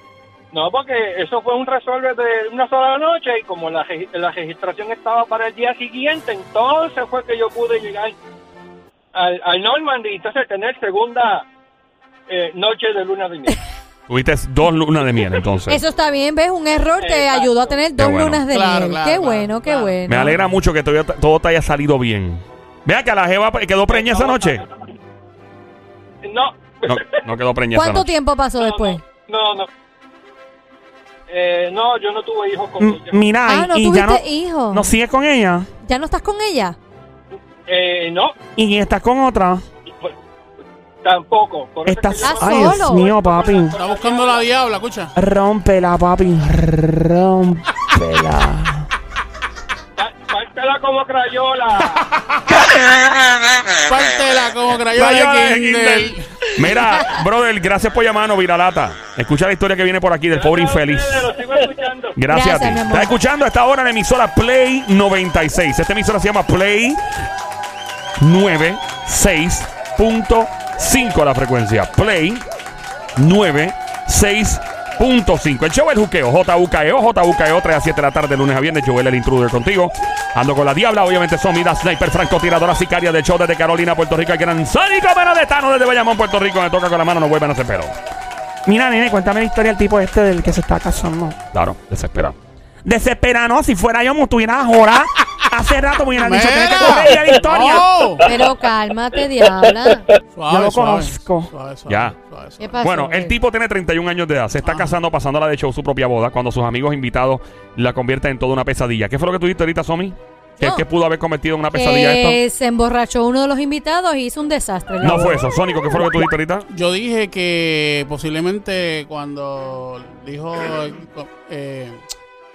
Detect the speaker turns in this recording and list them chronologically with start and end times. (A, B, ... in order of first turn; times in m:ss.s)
0:00.5-0:08.1 A
0:09.1-0:11.4 A
0:12.3-0:13.6 A
0:14.1-0:15.8 B
0:15.7-0:20.4 C
0:17.0-0:17.8 A
0:18.0-0:18.4 B
0:18.5-0:20.5 D
0:20.0-0:24.6 B
0:23.9-0:24.6 A
0:26.2-0:27.2 A
0:26.8-0:28.1 B
0:27.7-0:29.0 C
0:28.6-0:29.7 A
0:31.3-0:33.2 A
0:32.8-0:35.7 E
0:33.4-0:34.9 C
0:35.8-0:36.8 C
0:37.7-0:38.3 A
0:38.6-0:39.6 E
0:41.0-0:44.4 A
0:41.8-0:43.8 E
0:42.2-0:43.1 C
0:43.8-0:45.1 D
0:45.2-0:48.9 E
0:50.0-0:52.0 A
0:53.8-0:56.2 D
0:54.9-1:01.3 B
1:00.3-1:02.2 A
1:02.1-1:07.0 B
1:02.3-1:03.2 C
1:08.2-1:12.4 B
1:13.2-1:27.9 B
1:28.6-1:31.4 E
1:31.5-1:32.4 B
1:32.8-1:37.8 E
1:36.2-1:38.3 D
1:38.2-1:40.0 C
1:40.3-1:42.8 D
1:40.5-1:41.5 E
1:41.9-1:42.2 B
1:42.6-1:43.4 C
1:42.8-1:52.4 B
1:44.6-1:44.9 D
1:50.6-1:50.8 C
1:51.7-1:55.4 C
1:55.0-1:56.7 B
1:56.0-2:02.0 D